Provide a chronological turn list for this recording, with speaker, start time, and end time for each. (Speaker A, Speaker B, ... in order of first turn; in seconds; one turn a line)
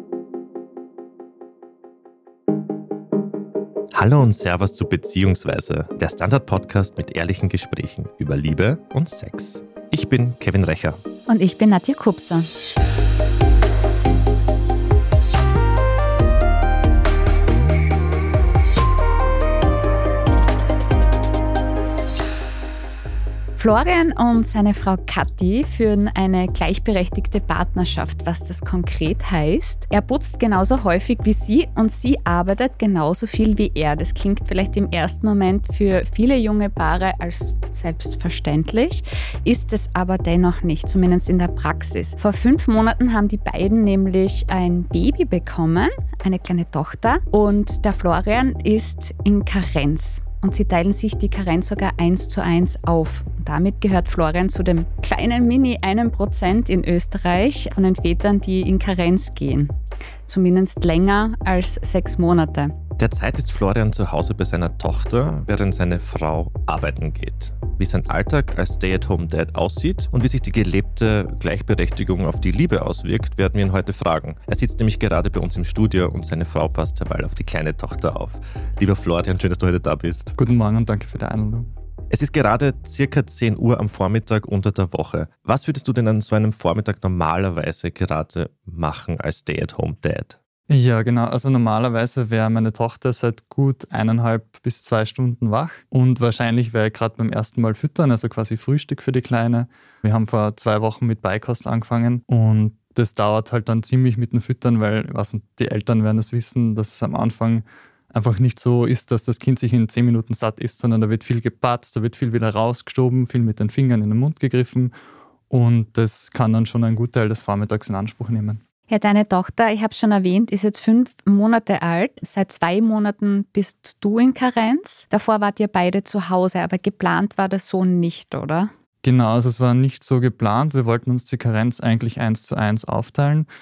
Speaker A: 3.9-11.0
Speaker B: 11.3-12.5
Speaker B: 23.6-59.8
Speaker B: 60.3-62.8
Speaker A: 63.0-80.4
Speaker C: 80.4-81.7
Speaker A: 82.1-90.4
Speaker C: 90.7-114.9
Speaker C: 115.5-118.6
Speaker B: 118.9-128.7
Speaker C: 129.0-133.5